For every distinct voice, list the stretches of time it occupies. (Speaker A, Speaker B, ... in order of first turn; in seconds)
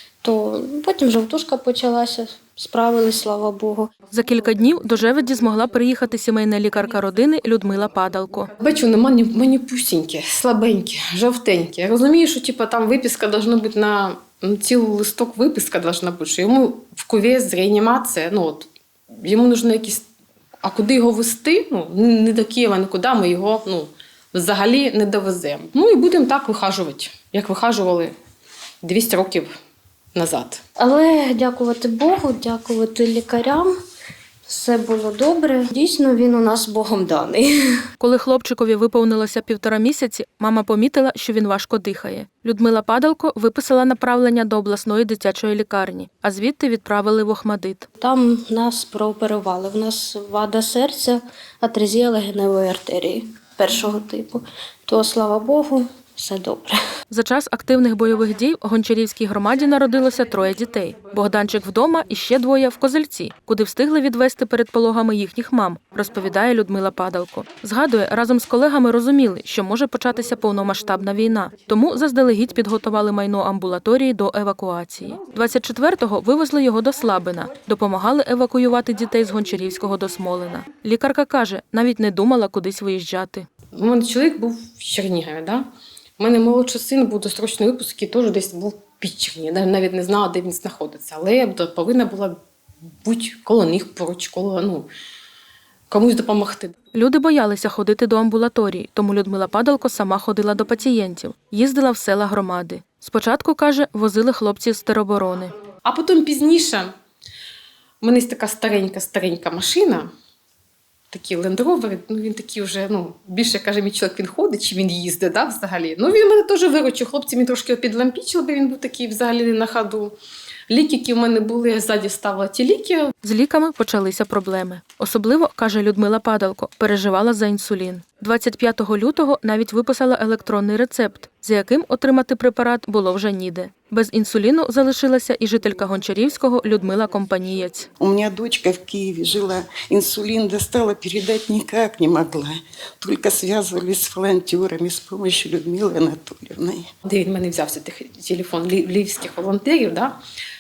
Speaker A: 0.2-3.9, 30.8-33.7, 34.5-37.8, 48.0-56.8
Speaker B: 4.1-8.5, 38.0-47.9, 57.1-83.5, 96.9-105.5, 123.2-137.9
Speaker C: 8.6-20.1, 20.6-28.1, 28.8-29.5, 30.1-30.6, 83.7-85.7, 86.2-92.4, 93.0-94.9, 95.9-96.7, 105.8-106.9, 108.0-110.1, 111.1-120.2, 120.7-123.1, 147.1-150.2
Speaker D: 138.0-146.9